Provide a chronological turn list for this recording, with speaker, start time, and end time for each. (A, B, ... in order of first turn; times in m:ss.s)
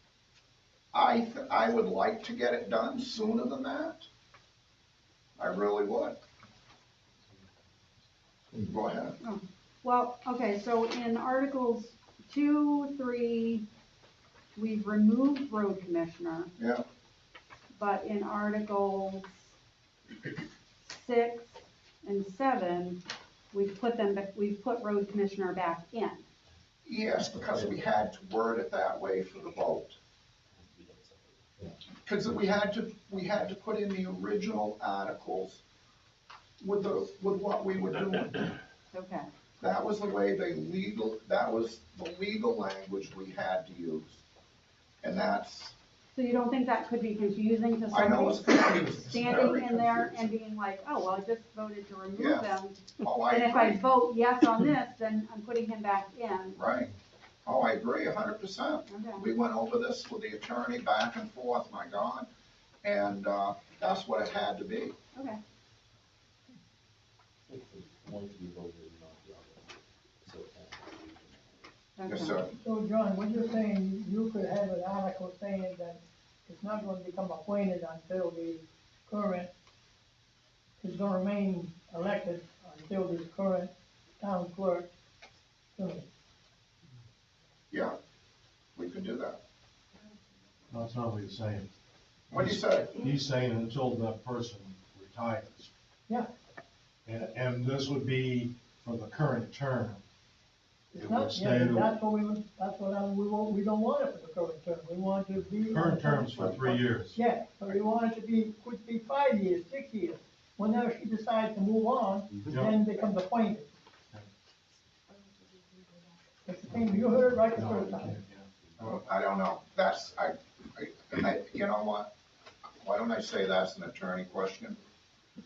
0:00.9-0:04.0 A
0:05.4-0:06.2 A
0:08.6-0:09.2 A
0:09.2-0:13.6 B
0:14.6-0:16.5 B
0:16.6-0:16.8 A
0:17.8-0:19.5 B
0:20.8-0:23.0 B
0:23.5-0:26.2 B
0:26.8-0:30.0 A
0:30.6-0:31.7 C
0:32.0-0:35.6 A
0:36.6-0:38.5 A
0:38.9-0:39.3 B
0:39.6-0:44.2 A
0:45.0-0:45.8 A
0:46.1-0:56.6 B
0:47.9-0:50.3 A
0:52.2-0:53.8 A
0:56.6-0:56.9 A
0:57.4-1:02.3 A
0:58.9-0:59.2 B
1:02.8-1:04.9 A
1:07.5-1:11.7 C
1:12.0-1:12.4 B
1:12.0-1:12.5 A
1:12.6-1:19.5 D
1:20.8-1:24.9 D
1:25.8-1:26.0 D
1:27.7-1:28.0 A
1:28.8-1:29.4 A
1:30.7-1:31.7 E
1:32.3-1:35.7 E
1:32.3-1:33.1 A
1:37.0-1:40.0 E
1:40.9-1:53.7 D
1:41.0-1:42.0 E
1:45.5-1:47.2 E
1:46.4-1:46.8 A
1:52.4-1:52.8 E
1:56.4-1:58.2 D
1:56.7-1:59.0 E
1:58.1-2:00.0 C
1:58.8-2:02.1 A
2:02.8-2:04.8 A